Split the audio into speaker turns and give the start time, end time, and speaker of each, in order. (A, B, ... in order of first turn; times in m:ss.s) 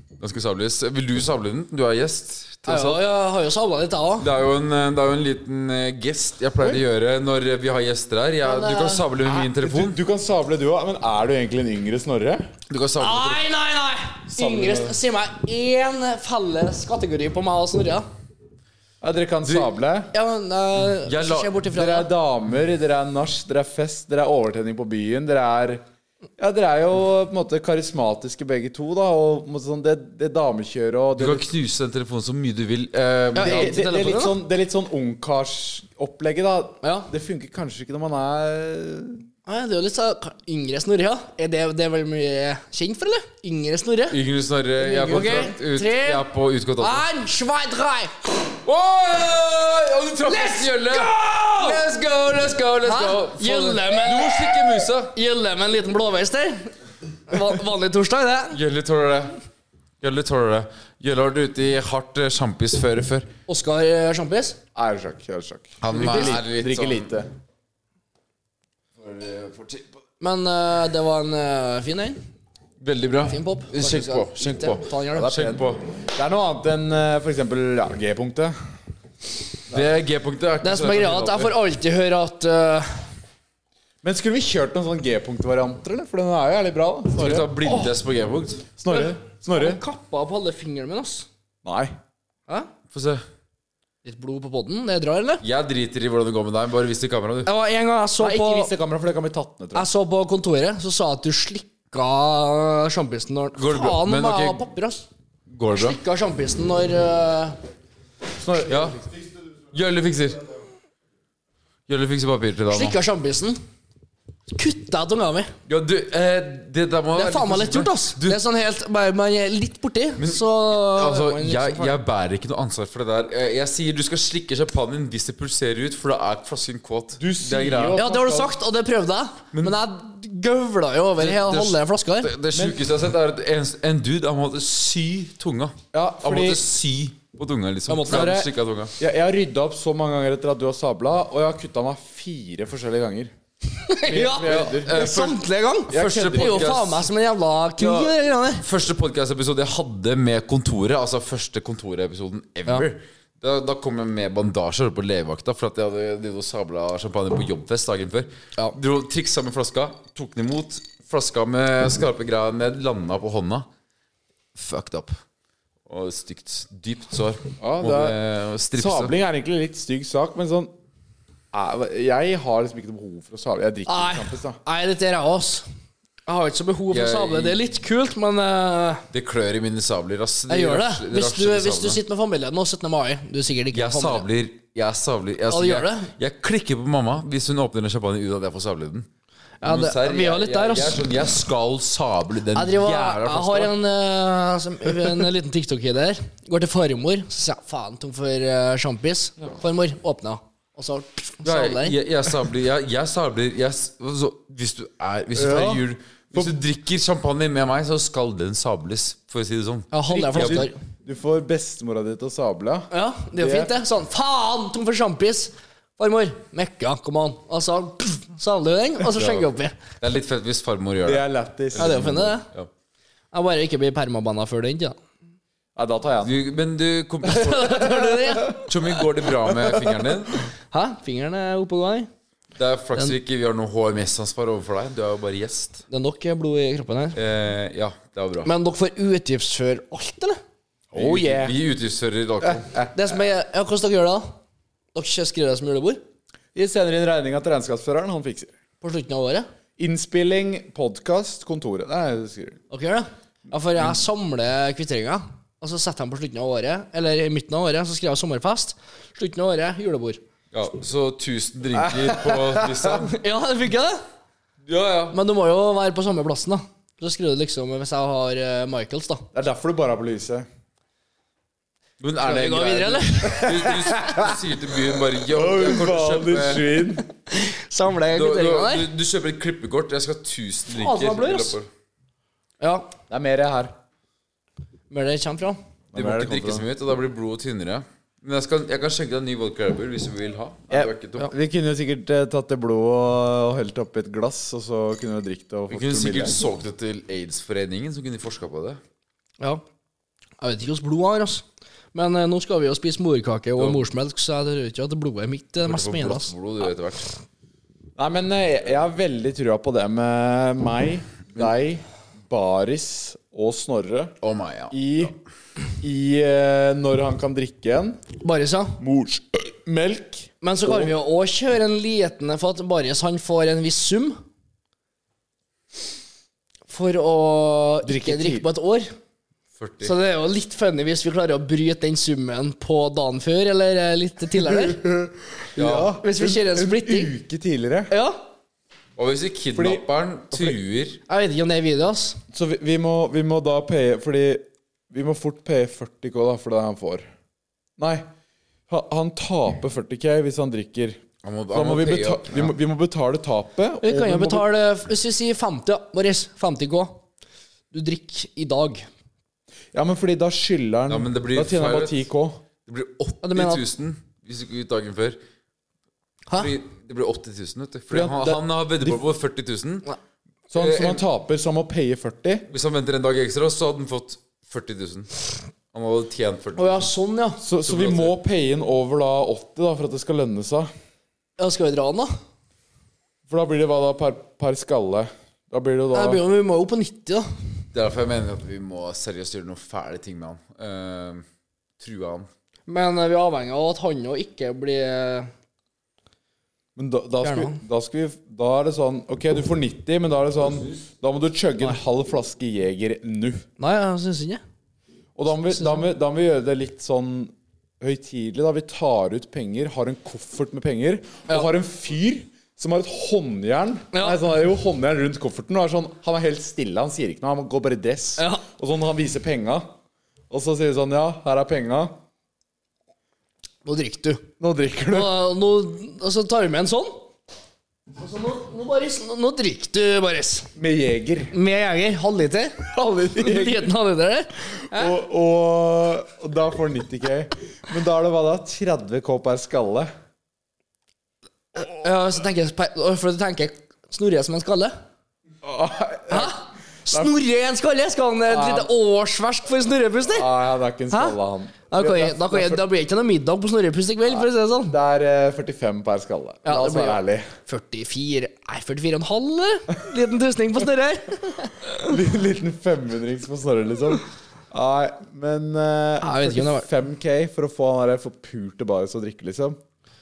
0:00.2-0:03.0 A
0:02.7-0:04.3 B
0:04.2-0:10.0 A
0:08.4-0:09.1 B
0:09.2-0:12.5 C
0:12.7-0:13.4 A
0:13.0-0:18.1 B
0:14.3-0:15.0 C
0:19.0-0:20.1 C
0:20.1-0:22.1 B
0:20.8-0:21.6 A
0:21.7-0:25.8 C
0:26.4-0:31.5 C
0:31.2-0:33.8 A
0:33.4-0:34.4 B
0:33.4-0:39.2 C
0:36.8-0:37.1 B
0:39.5-0:44.2 B
0:44.1-0:47.1 A
0:44.8-0:46.2 B
0:46.8-0:48.2 B
0:48.6-0:55.2 A
0:50.3-0:51.8 B
0:52.8-0:56.7 B
0:57.3-0:58.6 B
0:58.5-0:59.4 A
1:00.0-1:03.3 A
1:03.5-1:04.6 B
1:04.8-1:07.3 C
1:05.8-1:07.1 A
1:05.9-1:06.4 B
1:09.0-1:09.9 A
1:10.2-1:12.2 B
1:12.8-1:15.8 A
1:13.3-1:15.4 B
1:15.2-1:18.6 C
1:19.7-1:21.6 A
1:20.6-1:23.1 B
1:24.0-1:27.5 C
1:27.2-1:28.6 A
1:27.6-1:27.9 B
1:28.8-1:29.8 C
1:28.9-1:31.3 B
1:31.6-1:31.9 C
1:32.9-1:33.2 A
1:34.0-1:35.4 B
1:35.4-1:37.5 A
1:37.5-1:38.7 B
1:38.2-1:39.9 C
1:39.8-1:45.1 B
1:43.6-1:44.6 A
1:45.5-1:46.0 A
1:45.8-1:47.6 B
1:48.4-1:49.1 C
1:48.7-1:49.0 A
1:49.7-1:50.5 A
1:51.9-1:53.0 A
1:52.7-1:53.6 B
1:54.5-1:55.5 B
1:55.7-1:58.4 A
1:57.2-2:02.0 B
2:00.2-2:08.0 A
2:07.2-2:08.5 C
2:08.0-2:12.3 B
2:11.2-2:18.9 A
2:12.5-2:12.8 C
2:15.9-2:16.6 C
2:17.9-2:18.4 B
2:18.1-2:23.3 C
2:23.8-2:28.6 B
2:24.0-2:25.1 C
2:24.4-2:27.1 A
2:25.9-2:26.8 C
2:27.8-2:43.7 A
2:44.6-2:45.2 A
2:45.9-2:49.1 A
2:47.6-2:48.2 C
2:48.8-2:50.7 C
2:51.5-2:54.6 C
2:53.9-2:55.6 B
2:56.3-2:59.1 B
2:56.9-2:57.6 A
2:59.1-3:02.0 A
3:00.5-3:04.3 B
3:03.7-3:09.1 A
3:05.5-3:06.1 B
3:09.6-3:11.0 B
3:09.6-3:13.7 A
3:12.5-3:22.0 B
3:21.4-3:30.7 A
3:25.4-3:26.6 C
3:29.9-3:30.8 B
3:30.1-3:33.7 C
3:32.9-3:39.8 B
3:39.1-3:39.5 A
3:40.0-3:41.2 A
3:41.0-3:42.4 C
3:41.8-3:42.7 A
3:41.8-3:42.5 B
3:43.3-3:45.0 B
3:45.8-3:46.4 C
3:46.2-3:50.4 A
3:47.2-3:48.6 B
3:50.7-3:52.1 B
3:52.6-3:55.8 A
3:55.9-3:57.2 B
3:57.1-3:58.5 A
3:58.4-4:00.4 B
4:00.9-4:01.6 C
4:01.0-4:02.7 A
4:02.5-4:02.9 C
4:03.0-4:04.3 B
4:04.9-4:06.0 B
4:06.6-4:08.5 C
4:08.8-4:09.5 B
4:09.8-4:12.6 C
4:12.7-4:20.2 B
4:20.5-4:23.2 A
4:21.8-4:23.0 C
4:23.0-4:24.0 B
4:24.7-4:25.2 A
4:25.1-4:29.2 B
4:29.3-4:30.5 C
4:32.0-4:36.7 A
4:32.2-4:33.9 B
4:33.9-4:34.3 C
4:35.3-4:37.1 C
4:37.3-4:38.9 B
4:38.1-4:41.7 A
4:40.7-4:41.6 B
4:42.6-4:42.9 B
4:43.1-4:43.7 C
4:44.9-4:45.6 B
4:45.9-4:46.7 C
4:45.9-4:51.3 A
4:50.7-4:56.4 C
4:55.7-4:58.8 A
5:00.4-5:06.3 B
5:03.6-5:03.9 A
5:05.6-5:07.1 A
5:08.0-5:14.1 C
5:14.2-5:14.8 A
5:14.7-5:15.1 C
5:15.8-5:18.0 C
5:18.2-5:18.8 B
5:18.8-5:20.9 C
5:20.4-5:24.2 B
5:26.7-5:28.9 B
5:27.8-5:28.5 C
5:29.6-5:30.0 A
5:29.8-5:34.8 B
5:34.4-5:37.9 C
5:35.6-5:36.0 A
5:36.0-5:37.1 B
5:37.9-5:38.2 B
5:39.0-5:41.0 A
5:39.6-5:40.6 C
5:41.1-5:42.2 B
5:42.3-5:47.0 C
5:47.8-5:48.1 C
5:48.7-5:51.0 C
5:51.2-5:52.5 A
5:51.5-5:54.5 C
5:53.8-5:57.0 B
5:57.7-5:58.9 B
5:59.7-6:02.4 C
6:00.9-6:02.1 A
6:02.7-6:05.2 A
6:03.2-6:03.6 B
6:06.3-6:09.9 A
6:07.9-6:09.0 C
6:10.5-6:12.5 C
6:10.6-6:11.0 A
6:12.5-6:15.2 A
6:15.7-6:16.9 A
6:16.6-6:17.4 B
6:17.4-6:20.7 C
6:17.6-6:18.2 A
6:21.4-6:22.1 B
6:23.3-6:26.2 C
6:25.9-6:27.3 B
6:27.7-6:31.2 A
6:31.8-6:32.3 A
6:32.7-6:35.3 B
6:36.8-6:43.4 C
6:37.2-6:37.6 B
6:43.6-6:44.4 B
6:45.2-6:59.7 C
6:45.5-6:45.8 B
6:58.2-6:58.4 B
7:00.3-7:02.0 C
7:03.6-7:04.3 B
7:04.4-7:05.2 C
7:04.9-7:07.0 B
7:08.0-7:10.5 B
7:10.6-7:11.3 C
7:11.3-7:15.0 B
7:12.7-7:13.7 C
7:14.6-7:19.9 C
7:21.6-7:24.8 B
7:25.4-7:26.4 C
7:26.1-7:30.3 B
7:28.3-7:28.7 C
7:30.1-7:32.6 C
7:31.7-7:34.8 B
7:34.1-7:37.3 C
7:36.4-7:41.7 B
7:41.8-7:49.6 C
7:46.0-7:46.7 B